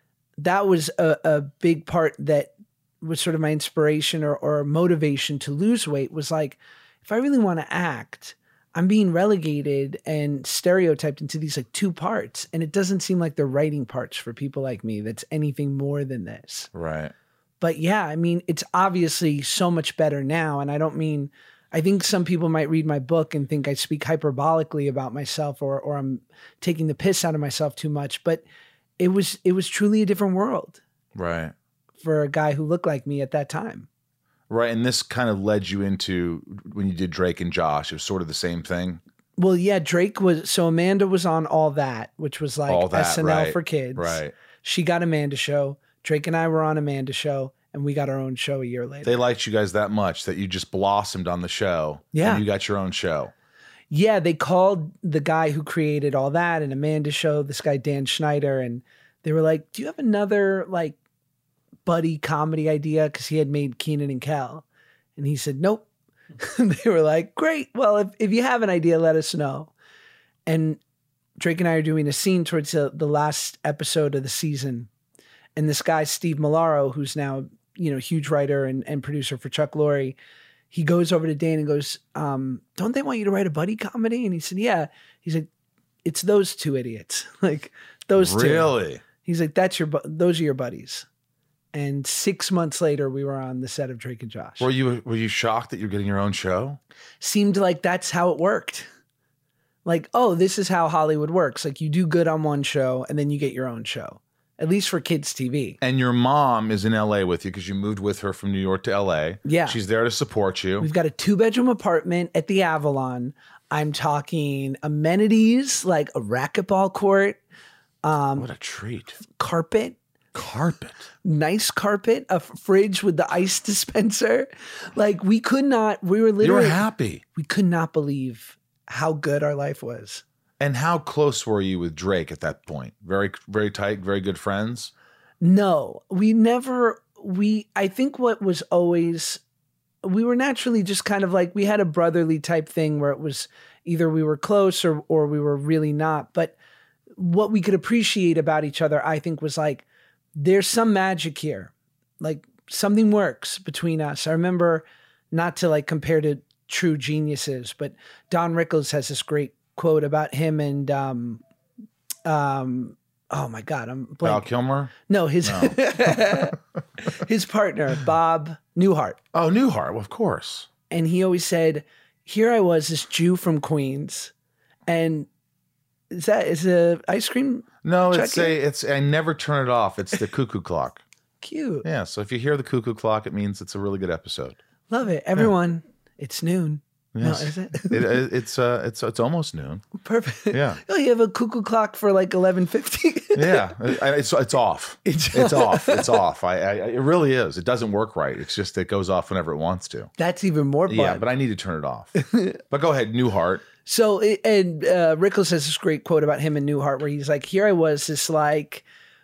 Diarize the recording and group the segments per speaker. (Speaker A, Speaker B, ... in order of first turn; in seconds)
Speaker A: 0.4-16.7, 17.6-28.4, 29.0-30.8, 32.0-33.9, 39.4-49.2, 52.1-52.4, 53.9-61.0, 61.9-64.6, 65.2-65.8, 66.4-69.7, 70.5-70.8, 71.4-74.9, 75.5-80.2, 80.7-85.5, 86.0-91.0, 91.7-94.7, 97.2-98.9, 99.8-105.8, 109.4-109.8, 110.8-117.4, 118.0-118.5, 119.3-120.0, 121.2-126.8, 127.3-130.2, 135.4-139.4, 140.0-146.5, 147.2-149.8, 150.3-161.4, 162.2-164.5, 165.1-169.2, 170.9-174.3, 174.9-175.3, 176.1-178.6, 181.4-181.8, 184.9-188.2, 190.0-193.9, 195.0-196.2, 200.2-201.2, 202.2-202.6, 203.8-208.8
Speaker B: 16.7-17.1, 31.1-31.5, 34.5-39.0, 42.7-44.3, 49.0-53.3, 88.2-89.0, 94.6-96.8, 105.8-110.9, 118.3-119.2, 120.3-121.0, 126.4-127.2, 130.6-134.9, 164.2-166.5, 169.3-170.7, 177.8-181.0, 181.8-184.6, 187.1-189.9, 190.5-190.8, 193.3-200.1, 200.9-202.1, 202.7-203.7